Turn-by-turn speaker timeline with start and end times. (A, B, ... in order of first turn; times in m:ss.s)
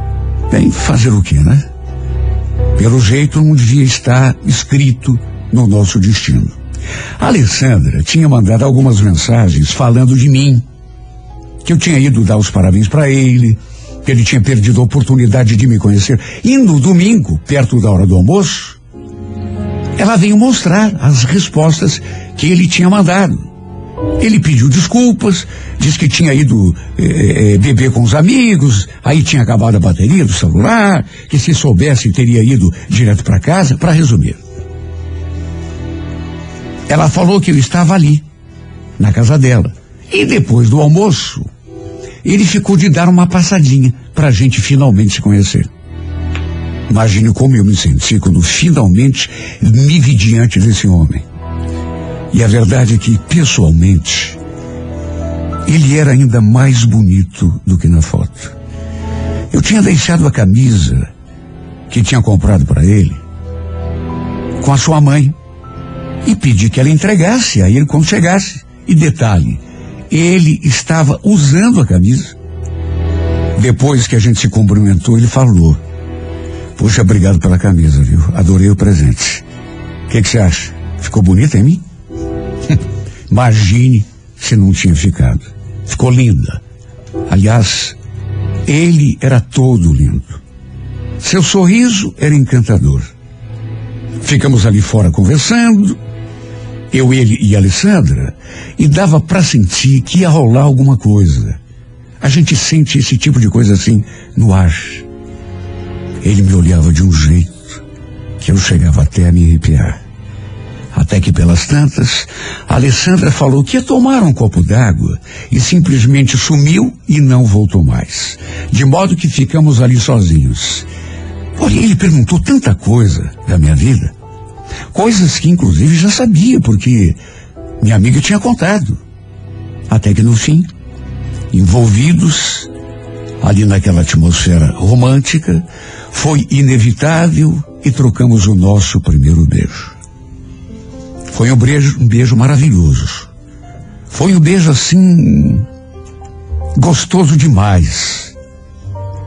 0:00.5-0:01.7 A
0:02.8-0:06.6 A
0:07.2-0:10.6 A
0:11.6-0:18.8 A
0:20.0-0:23.5 A
0:24.2-0:34.4 A
0:36.9-0:38.2 A
0:39.0-0:41.5 A
0:42.2-0:45.7 A
0:46.9-0:51.2 A
0:52.3-0:54.4 A
0:55.6-0:58.5 A
0:59.5-1:01.1 A
1:01.9-1:03.2 A
1:04.6-1:05.4 A
1:06.2-1:12.4 A
1:13.5-1:15.8 A
1:16.8-1:19.4 A
1:20.1-1:21.8 A
1:23.3-1:26.6 A
1:27.3-1:28.0 A
1:28.6-1:30.4 A
1:31.2-1:33.1 A
1:34.2-1:36.0 A
1:36.9-1:41.6 A
1:42.2-1:45.0 A
1:46.2-1:47.8 A
1:48.4-1:50.0 A
1:50.9-2:00.9 A
2:01.6-2:04.1 A
2:04.9-2:07.2 A
2:07.8-2:09.0 A
2:09.9-2:10.7 A
2:11.5-2:12.7 A
2:13.4-2:19.9 A
2:21.3-2:23.3 A
2:24.1-2:25.6 A
2:26.7-2:28.3 A